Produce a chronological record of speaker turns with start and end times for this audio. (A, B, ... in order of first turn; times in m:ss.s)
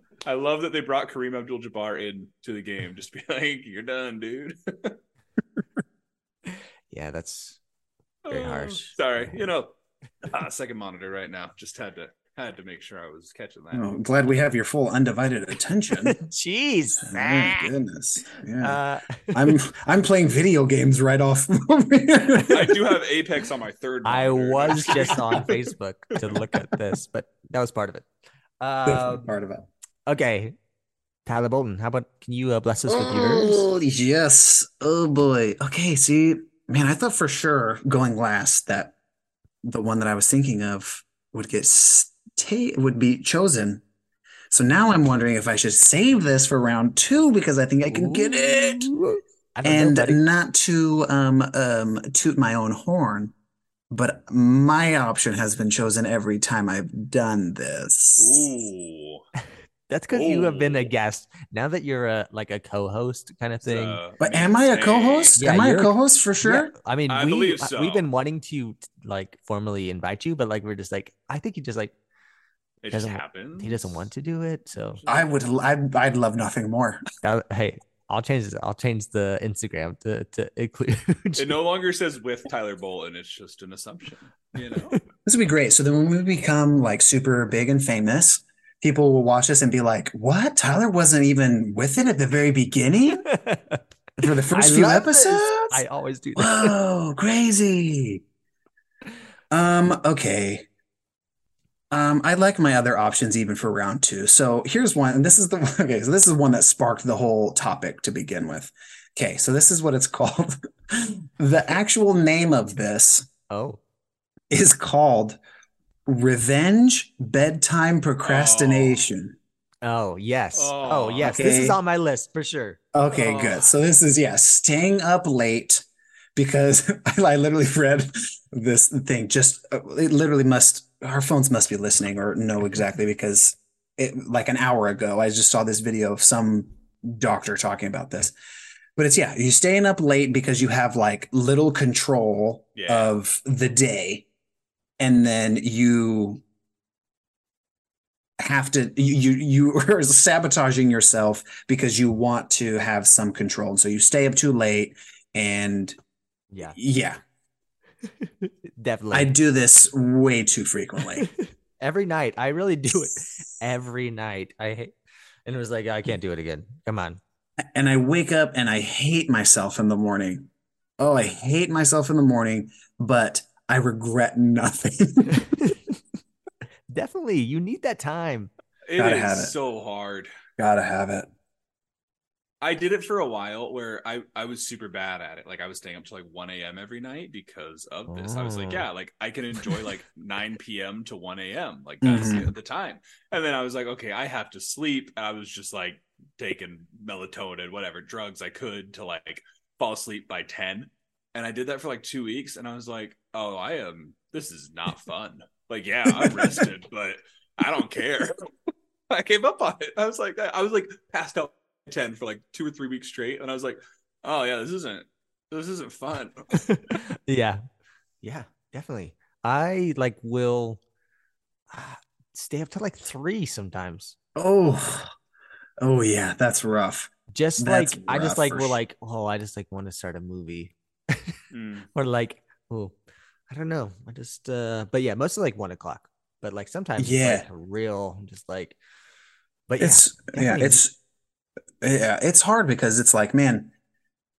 0:00.2-0:05.0 A
0:06.5-0:07.6 B
0:08.2-0:09.7 A
0:08.3-0:09.4 B
0:10.2-0:13.9 A
0:13.7-0:16.2 C
0:16.0-0:17.7 B
0:17.0-0:18.8 C
0:18.6-0:19.5 B
0:19.3-0:22.8 C
0:22.5-0:25.5 A
0:24.0-0:28.1 B
0:28.6-0:29.3 B
0:28.8-0:29.7 C
0:30.1-0:30.5 B
0:31.2-0:33.6 B
0:32.9-0:38.9 C
0:39.6-0:43.8 C
0:44.5-0:48.9 C
0:47.9-0:50.2 B
0:49.6-0:53.3 C
0:53.9-0:58.5 C
0:58.2-0:59.2 A
0:59.9-1:04.0 B
1:00.1-1:00.9 A
1:03.6-1:05.4 A
1:04.2-1:06.7 C
1:05.4-1:11.9 B
1:07.1-1:08.0 A
1:12.8-1:14.1 A
1:12.9-1:15.0 B
1:15.0-1:15.3 A
1:15.1-1:17.0 C
1:17.2-1:21.6 B
1:21.4-1:25.0 A
1:25.2-1:33.2 C
1:33.2-1:36.8 B
1:34.2-1:35.8 C
1:36.4-1:38.2 C
1:39.5-1:40.6 C
1:41.9-1:53.3 C
1:53.5-1:53.8 B
1:54.5-1:55.4 C
1:56.0-1:59.4 C
1:58.2-1:59.1 A
1:59.8-2:02.8 B
2:00.5-2:01.4 A
2:01.2-2:01.8 C
2:02.9-2:18.3 C
2:03.1-2:03.7 A
2:19.0-2:24.2 C
2:22.8-2:23.1 A
2:25.0-2:26.4 C
2:28.4-2:36.0 C
2:36.5-2:36.8 B
2:36.7-2:37.2 C
2:38.0-2:39.3 B
2:39.1-2:41.2 C
2:41.2-2:44.9 B
2:45.4-2:47.2 B
2:47.7-2:55.4 C
2:55.3-2:55.9 B
2:56.9-2:58.5 B
2:58.9-3:00.3 A
2:59.0-2:59.5 C
3:00.6-3:01.3 C
3:02.6-3:28.3 A
3:08.1-3:08.8 B
3:12.0-3:12.5 C
3:29.1-3:36.6 A
3:36.5-3:37.6 B
3:38.2-3:40.8 B
3:41.7-3:44.2 B
3:44.4-3:45.1 C
3:45.8-3:48.8 C
3:47.3-3:51.4 B
3:51.5-3:51.9 A
3:51.9-3:53.0 B
3:53.5-3:58.8 B
3:57.0-3:57.4 C
3:59.7-4:00.8 B
3:59.8-4:01.0 C
4:01.8-4:03.7 C